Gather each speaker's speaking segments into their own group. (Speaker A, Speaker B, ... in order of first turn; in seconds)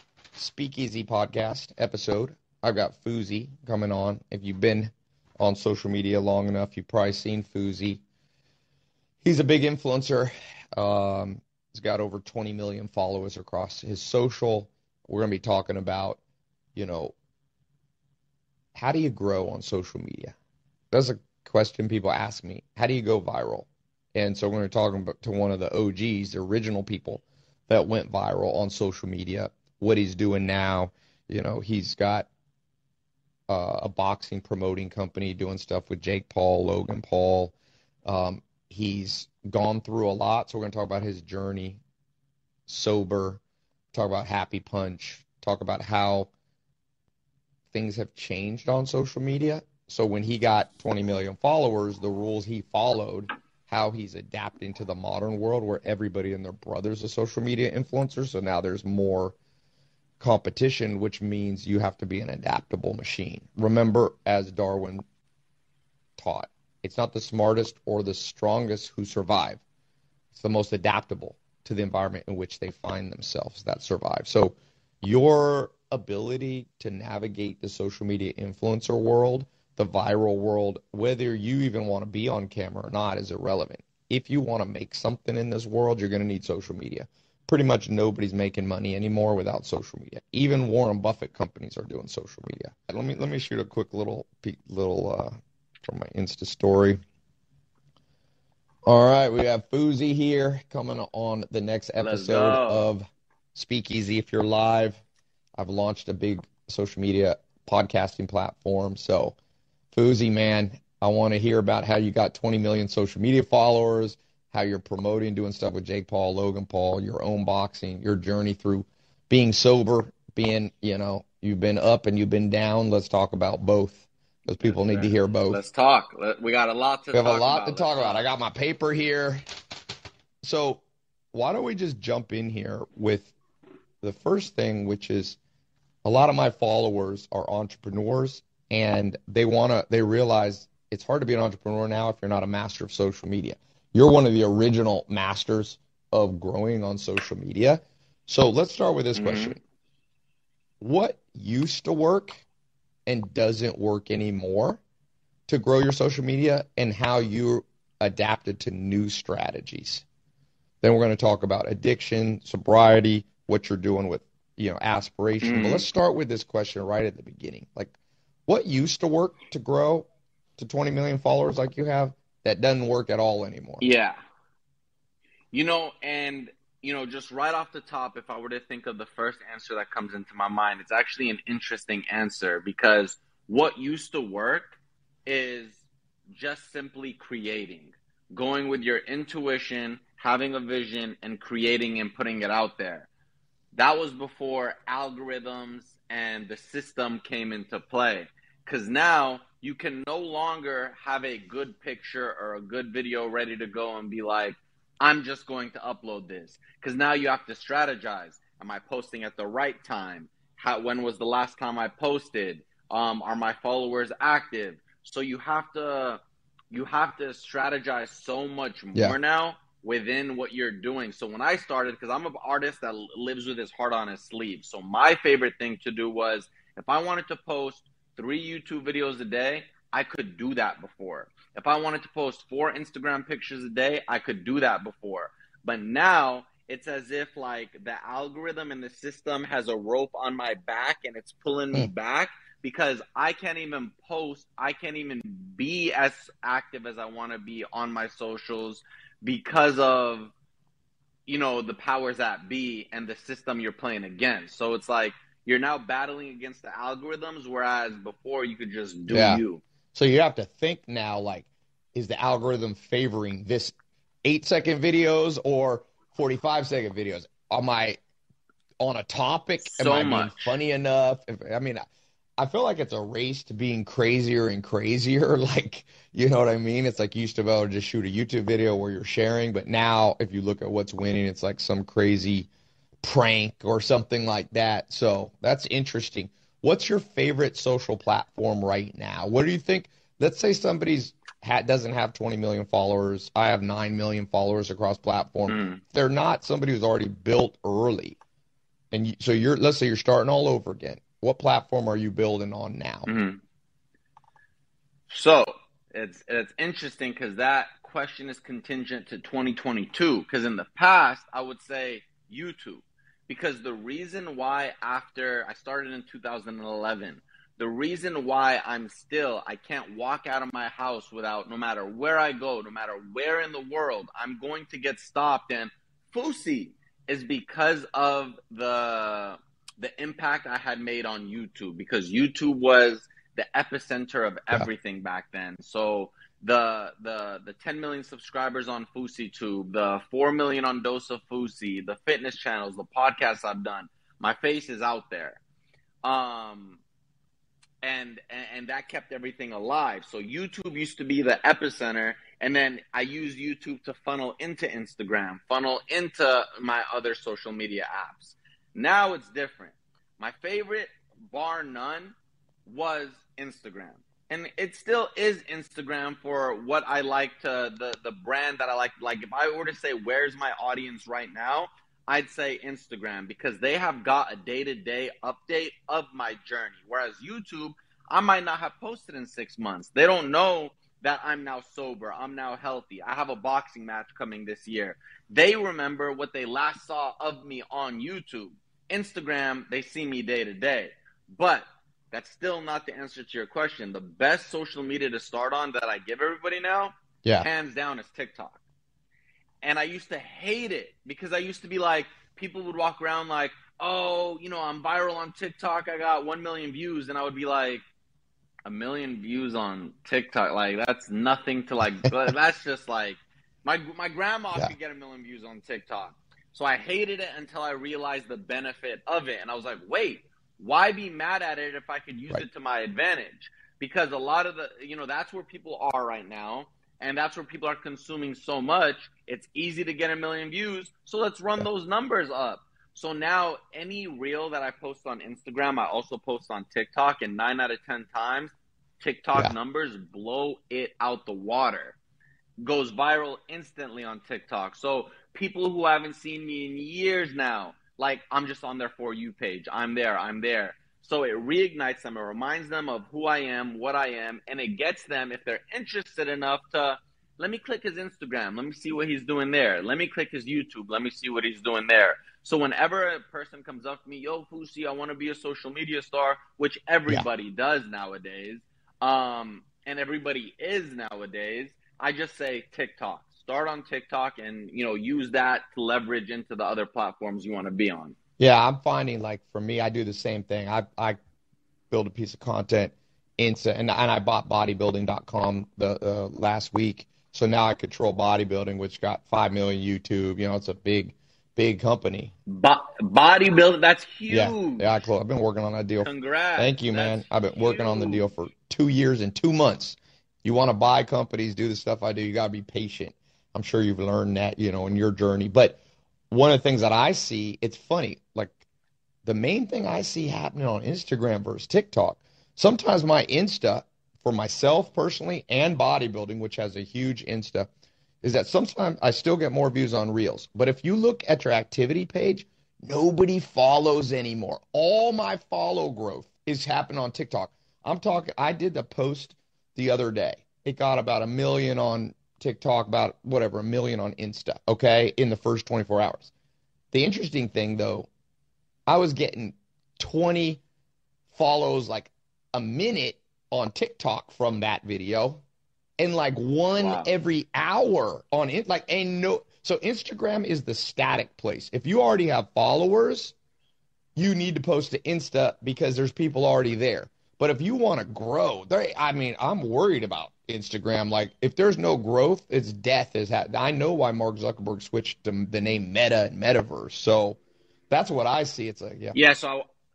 Speaker A: 0.3-8.0, 9.2-16.2, 16.8-17.1, 18.8-20.4, 20.9-32.3, 33.5-37.5, 38.1-41.8, 42.7-43.4, 43.9-46.3, 47.7-59.4, 60.2-65.0, 66.2-69.6, 70.3-97.0, 98.9-105.0, 105.6-109.4, 109.9-125.6, 127.1-129.4, 130.4-133.3, 134.0-135.4, 136.1-149.6, 150.8-152.4, 153.1-154.8, 155.5-160.0, 160.8-167.9, 168.5-173.9, 259.1-259.4, 259.9-263.7, 264.2-268.0, 268.8-271.8, 272.4-282.5, 283.0-298.2, 298.9-303.1, 478.4-481.2, 481.9-492.3, 494.3-505.8, 506.3-508.6, 509.2-517.7, 518.2-536.3, 536.9-538.1, 538.9-540.6, 541.3-545.4, 546.0-553.4, 554.2-567.4, 567.9-569.2
Speaker B: 102.0-102.9, 124.6-128.2, 149.2-149.6, 165.4-165.9, 173.8-174.2, 175.5-193.1, 193.7-216.2, 216.7-250.3, 251.3-259.6, 269.6-270.5, 295.5-295.8, 303.1-303.4, 305.1-345.4, 346.0-346.8, 347.8-362.1, 362.7-398.6, 399.6-407.8, 408.7-442.0, 442.6-478.1, 492.5-495.0, 496.0-498.2, 546.8-547.1, 569.1-569.7